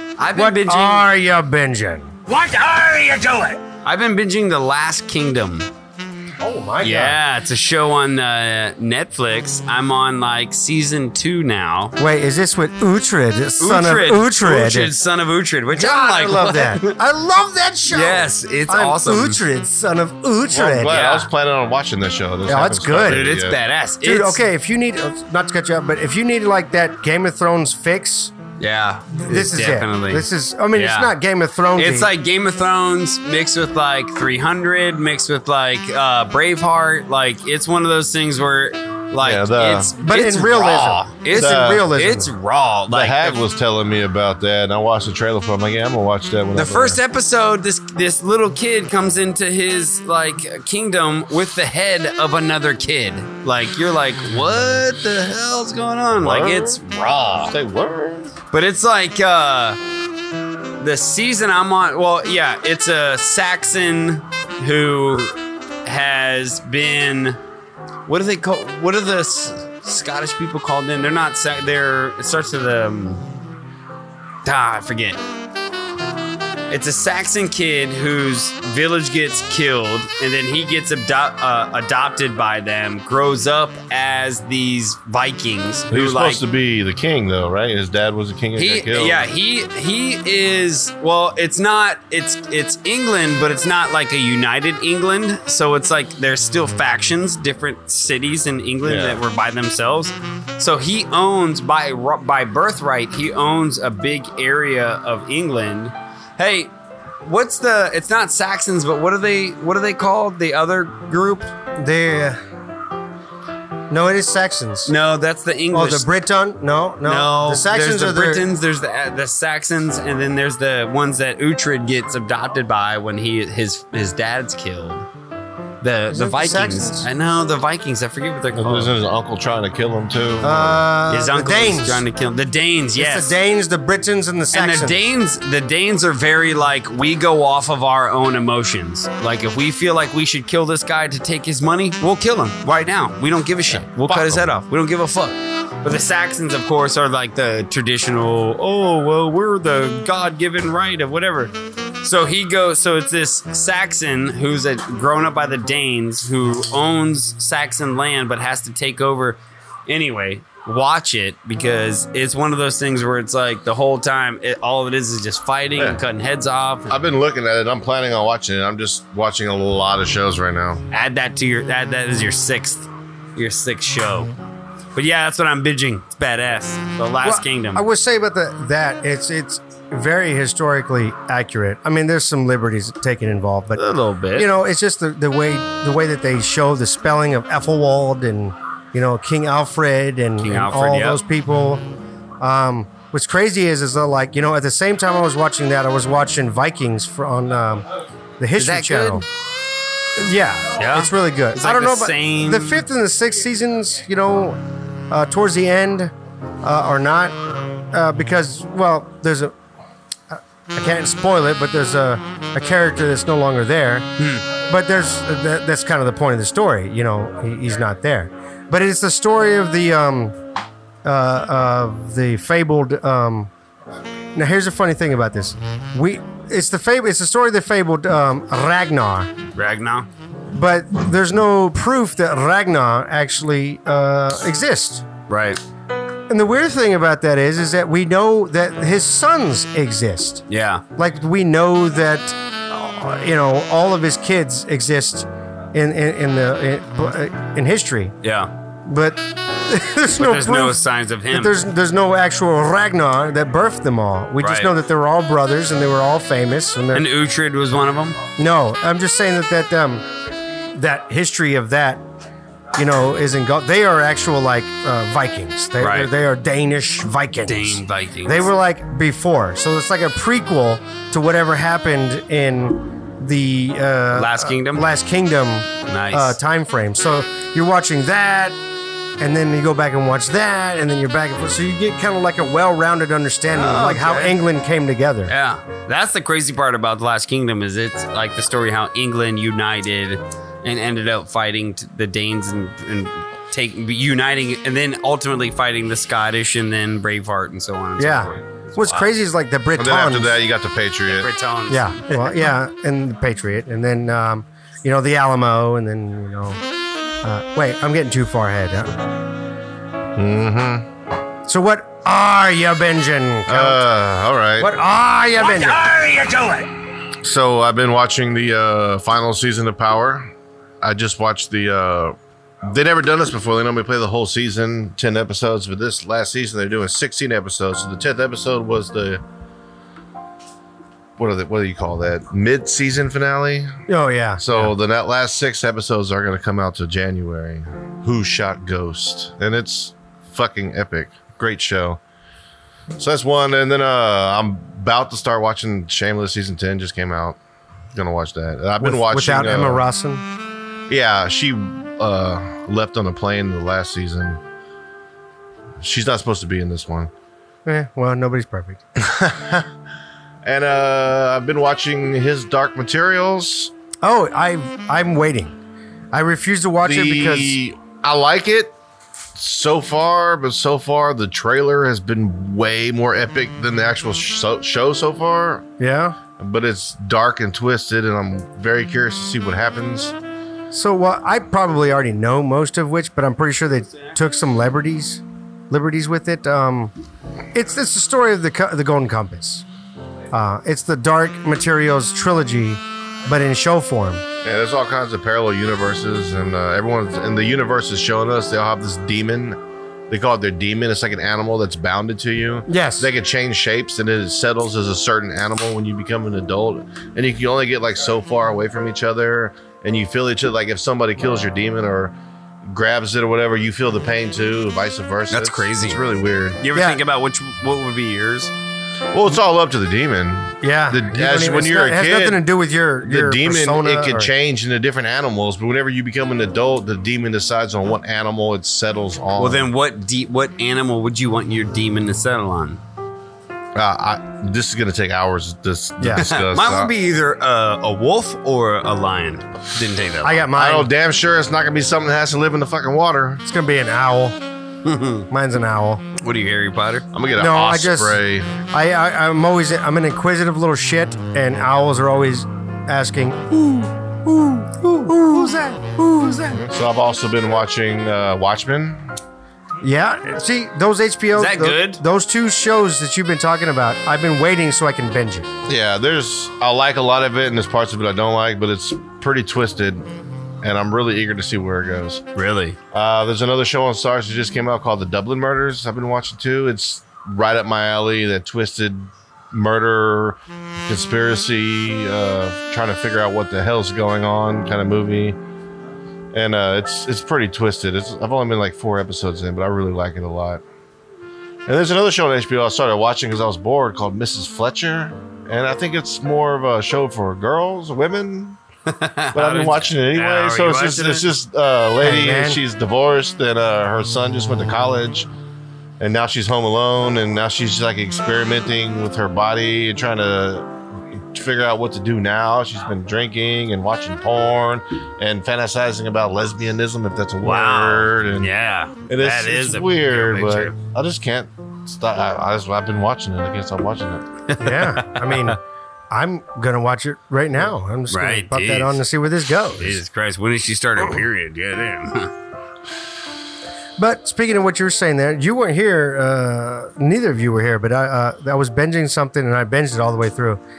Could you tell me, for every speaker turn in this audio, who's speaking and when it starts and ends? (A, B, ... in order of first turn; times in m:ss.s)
0:00.2-0:01.0 A
0:00.3-0:02.1 B
0:02.3-0:03.6 C
0:03.8-0:05.7 A
0:06.4-0:07.2 B
0:06.8-0:12.0 A
0:12.0-0:14.9 B
0:13.6-0:17.0 A
0:15.7-0:21.0 B
0:17.9-0:19.4 A
0:20.5-0:23.6 D
0:20.9-0:21.3 A
0:22.4-0:23.3 B
0:23.0-0:24.4 A
0:24.0-0:28.3 B
0:28.6-0:31.1 A
0:29.2-0:32.1 B
0:31.8-0:43.4 A
0:39.2-0:39.9 D
0:40.0-0:42.3 B
0:41.3-0:41.9 D
0:42.9-0:47.0 D
0:46.5-0:57.5 A
0:56.2-0:56.8 D
0:57.5-0:58.3 D
0:58.5-0:59.8 A
1:00.8-1:07.4 A
1:08.0-1:13.2 A
1:14.4-1:15.2 A
1:16.7-1:26.4 A
1:25.9-1:29.2 D
1:28.6-1:46.7 A
1:38.8-1:39.2 D
1:47.2-1:51.5 A
1:51.8-1:52.4 B
1:53.9-1:54.9 B
1:54.8-1:56.1 A
1:55.7-1:58.5 B
1:57.0-2:05.0 A
2:05.8-2:08.9 A
2:06.1-2:07.1 B
2:08.5-2:10.8 D
2:10.4-2:12.0 B
2:11.1-2:13.3 A
2:13.0-2:15.1 B
2:14.5-2:46.9 A
2:23.9-2:24.4 D
2:46.9-2:50.8 D
2:50.9-2:54.3 A
2:54.9-2:57.8 A
2:57.2-3:03.8 B
3:03.8-3:04.5 A
3:04.3-3:11.8 B
3:10.4-3:11.2 A
3:12.4-3:17.9 B
3:18.4-3:19.2 B
3:18.6-3:19.2 A
3:20.1-3:24.6 B
3:20.8-3:22.8 A
3:25.1-3:27.4 B
3:27.9-3:29.5 B
3:30.3-3:40.3 B
3:34.2-3:34.4 A
3:41.0-3:43.5 B
3:44.3-3:49.3 B
3:49.6-3:50.1 A
3:50.5-3:55.0 B
3:55.3-3:55.6 A
3:56.3-4:00.4 B
4:00.5-4:00.8 A
4:01.0-4:08.1 B
4:08.2-4:08.5 A
4:08.8-4:10.8 B
4:10.1-4:11.6 A
4:11.3-4:17.1 B
4:14.4-4:14.7 A
4:16.9-4:18.2 A
4:18.4-4:20.0 B
4:20.7-4:22.0 B
4:22.7-4:38.6 B
4:25.8-4:26.1 A
4:27.4-4:28.5 A
4:34.1-4:34.8 A
4:35.9-4:36.4 A
4:39.2-4:45.3 B
4:43.5-4:44.4 A
4:45.3-4:59.1 A
4:58.0-5:00.4 B
4:59.8-5:01.3 D
5:01.1-5:02.4 A
5:01.7-5:06.6 B
5:07.2-5:09.0 B
5:10.2-5:10.9 D
5:11.5-5:13.9 B
5:13.5-5:14.7 D
5:14.6-5:15.8 B
5:15.4-5:16.7 C
5:17.2-5:20.3 D
5:20.8-5:29.2 D
5:31.2-5:33.8 D
5:33.9-5:34.7 B
5:34.4-5:42.0 D
5:43.0-5:47.4 D
5:47.9-5:49.8 D
5:48.8-5:50.2 B
5:50.9-5:54.4 D
5:55.8-5:57.1 D
5:57.6-5:58.8 B
5:59.0-5:59.7 D
6:00.4-6:03.7 D
6:04.0-6:05.6 B
6:06.1-6:07.6 B
6:06.8-6:08.7 D
6:09.3-6:15.7 D
6:15.8-6:16.2 B
6:16.4-6:20.1 D
6:20.7-6:26.9 B
6:27.5-6:29.6 B
6:30.3-6:34.2 B
6:34.4-6:39.6 D
6:40.1-6:52.1 D
6:42.7-6:43.1 B
6:52.6-6:56.6 D
6:55.3-6:56.0 A
6:56.6-6:58.5 A
6:56.7-6:57.0 B
6:59.1-7:02.4 D
7:00.6-7:04.3 B
7:03.0-7:09.7 D
7:09.4-7:12.8 A
7:13.7-7:16.9 D
7:16.0-7:16.3 B
7:16.2-7:20.5 A
7:20.2-7:20.9 B
7:20.6-7:23.4 D
7:23.4-7:24.4 B
7:24.8-7:25.3 A
7:25.3-7:26.0 B
7:26.2-7:27.0 A
7:27.1-7:28.5 D
7:27.3-7:36.6 B
7:36.5-7:39.0 D
7:39.8-7:45.5 B
7:41.3-7:42.0 A
7:45.7-7:50.0 D
7:50.6-7:52.2 D
7:52.4-7:52.8 A
7:52.9-8:05.4 D
8:06.3-8:10.6 D
8:11.7-8:18.6 D
8:18.9-8:21.3 A
8:19.3-8:25.3 D
8:22.0-8:22.6 B
8:26.0-8:38.5 D
8:37.4-8:40.8 A
8:39.1-8:44.2 D
8:44.5-8:45.5 A
8:44.6-8:45.6 B
8:46.1-8:50.0 B
8:48.1-8:49.0 A
8:49.8-8:52.3 A
8:54.0-9:00.6 B